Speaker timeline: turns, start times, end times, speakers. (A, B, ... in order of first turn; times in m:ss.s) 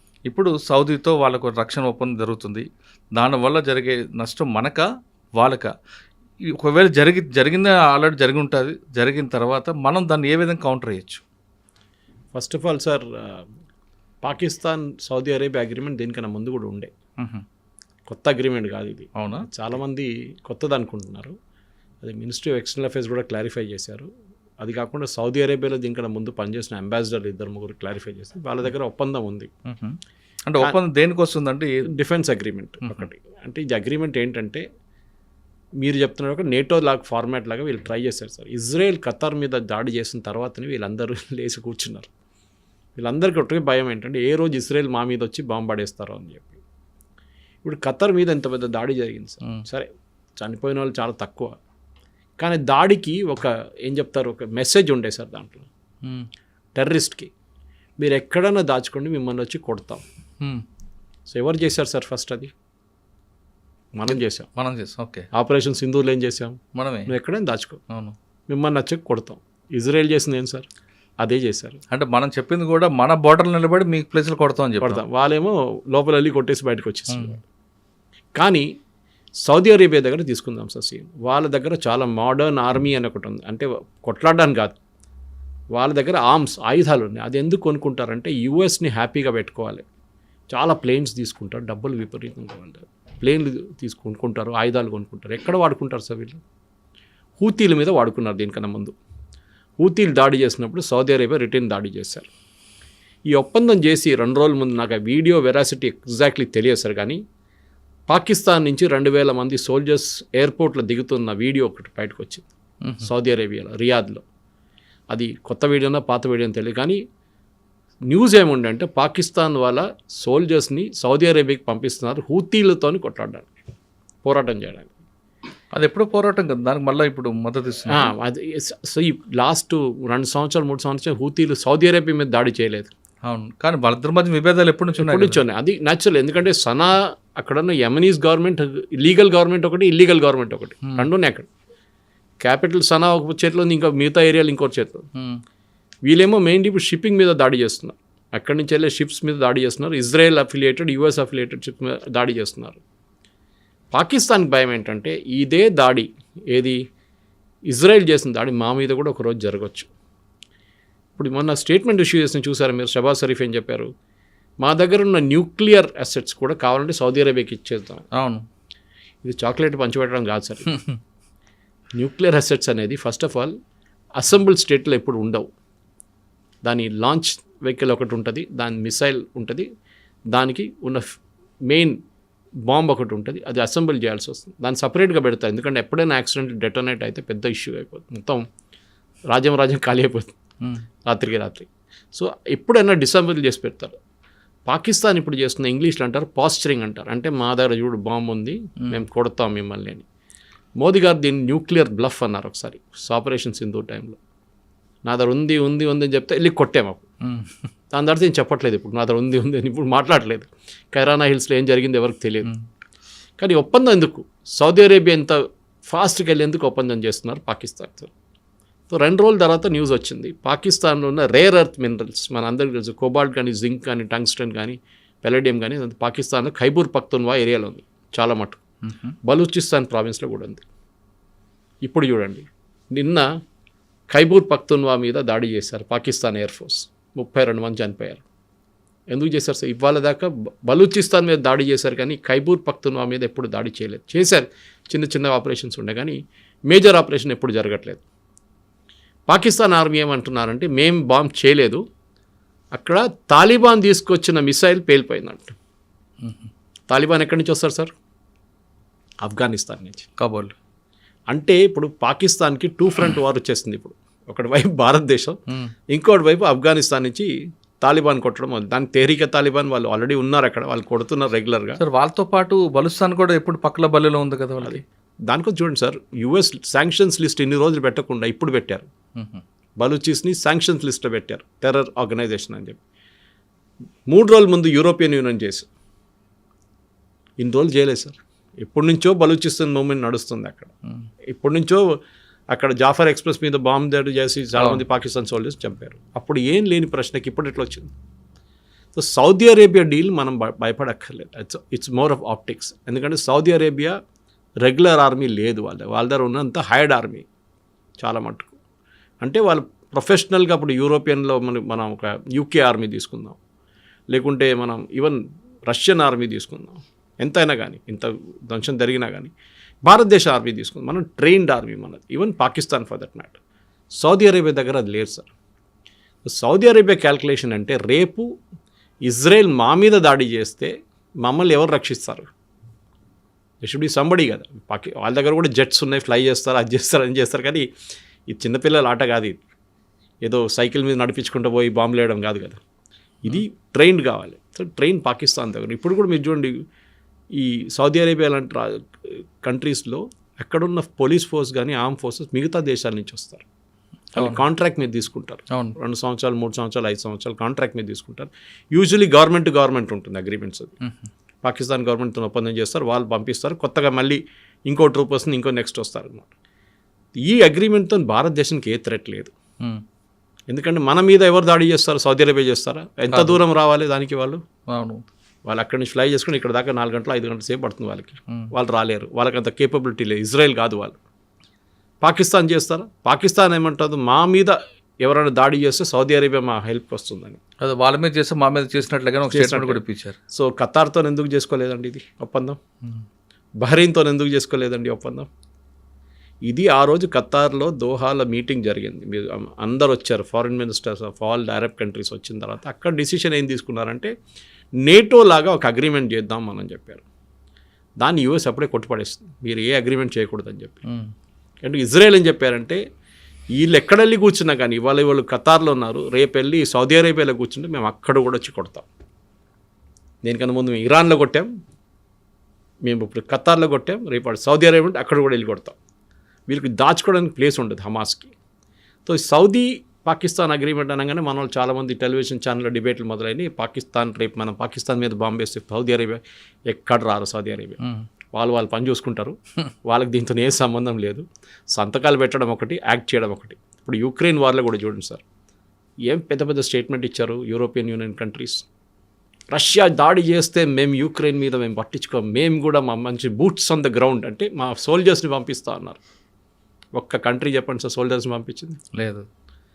0:00.3-0:04.8 A
0:05.4-0:05.7 A
0:06.5-0:11.2 A
0:12.3-0:13.5 B
0:14.2-0:16.9 B
0:18.1-0:21.3 B
0:19.2-0:19.4 A
0:22.0-0:24.1 B
0:24.6-0:29.5 B
0:29.6-0:31.9 A
0:31.9-0:34.6 B
0:35.8-0:42.1 B
0:43.0-0:46.6 B
0:47.6-0:51.6 B
0:52.4-0:55.7 B
0:56.7-0:57.3 B
0:58.0-1:00.0 B
1:01.2-1:02.5 B
1:03.9-1:04.5 B
1:04.1-1:05.2 A
1:05.3-1:07.8 B
1:06.7-1:07.1 A
1:07.9-1:08.1 A
1:08.5-1:10.6 B
1:11.2-1:11.8 B
1:11.9-1:15.0 A
1:14.8-1:17.4 B
1:17.1-1:17.3 A
1:18.3-1:18.6 B
1:19.4-1:24.8 B
1:25.7-1:29.8 B
1:30.5-1:36.4 B
1:37.4-1:38.9 B
1:39.8-1:42.3 B
1:43.3-1:47.2 B
1:48.1-1:52.4 B
1:53.0-1:54.2 B
1:55.1-1:57.0 B
1:58.1-2:03.5 B
2:04.2-2:04.9 B
2:05.7-2:08.1 A
2:07.9-2:12.9 B
2:13.2-2:15.4 A
2:15.0-2:21.5 B
2:22.4-2:25.0 B
2:25.2-2:25.4 A
2:26.0-2:32.8 B
2:33.9-2:36.8 B
2:37.7-2:39.9 B
2:41.2-2:43.9 B
2:44.6-2:48.1 B
2:48.1-2:48.4 A
2:49.2-2:50.8 B
2:52.0-2:53.5 B
2:54.2-2:55.5 B
2:56.6-2:59.6 B
3:00.3-3:01.0 B
3:01.7-3:02.0 B
3:02.6-3:08.4 B
3:09.3-3:10.3 B
3:11.0-3:13.9 B
3:14.6-3:20.0 B
3:20.8-3:24.2 B
3:25.0-3:27.0 B
3:27.2-3:27.7 A
3:27.9-3:32.5 B
3:33.4-3:38.1 B
3:38.9-3:48.6 B
3:48.8-3:49.1 A
3:49.2-3:50.6 B
3:51.8-3:53.3 B
3:54.1-3:58.2 B
3:59.1-4:08.0 B
4:09.3-4:11.8 B
4:12.7-4:15.5 B
4:16.2-4:16.5 A
4:16.9-4:17.9 B
4:19.2-4:20.1 B
4:20.2-4:20.5 A
4:21.3-4:25.4 B
4:25.9-4:27.3 B
4:27.8-4:31.8 B
4:31.8-4:34.8 A
4:34.6-4:38.9 B
4:39.2-4:39.4 A
4:39.8-4:42.8 B
4:44.1-4:45.7 B
4:47.4-4:50.7 B
4:51.3-4:52.0 B
4:52.5-4:57.9 B
4:54.6-4:54.8 A
4:58.9-5:03.9 B
5:04.6-5:07.2 B
5:08.0-5:08.5 B
5:09.2-5:13.4 B
5:14.1-5:19.3 B
5:19.8-5:23.4 B
5:24.0-5:25.3 B
5:26.2-5:28.3 B
5:29.0-5:30.7 B
5:31.2-5:32.3 B
5:33.6-5:37.6 B
5:38.3-5:39.4 B
5:40.2-5:42.6 B
5:43.2-5:46.6 B
5:47.3-5:53.4 B
5:54.1-6:00.7 B
5:54.2-5:54.4 A
6:00.8-6:01.1 A
6:01.4-6:06.3 B
6:07.2-6:09.3 B
6:10.5-6:14.4 B
6:13.1-6:13.4 A
6:14.7-6:15.0 A
6:15.4-6:21.0 B
6:22.0-6:27.4 B
6:27.6-6:30.2 A
6:29.3-6:32.6 B
6:33.6-6:35.3 B
6:36.4-6:44.1 B
6:44.8-6:47.0 B
6:48.0-6:50.8 B
6:51.6-6:52.8 B
6:53.5-6:58.8 B
7:00.2-7:01.5 B
7:02.8-7:05.8 B
7:06.5-7:08.3 B
7:09.0-7:17.8 B
7:17.8-7:18.0 A
7:18.3-7:25.2 B
7:26.1-7:28.6 B
7:29.5-7:36.0 B
7:36.9-7:38.8 B
7:38.9-7:39.3 A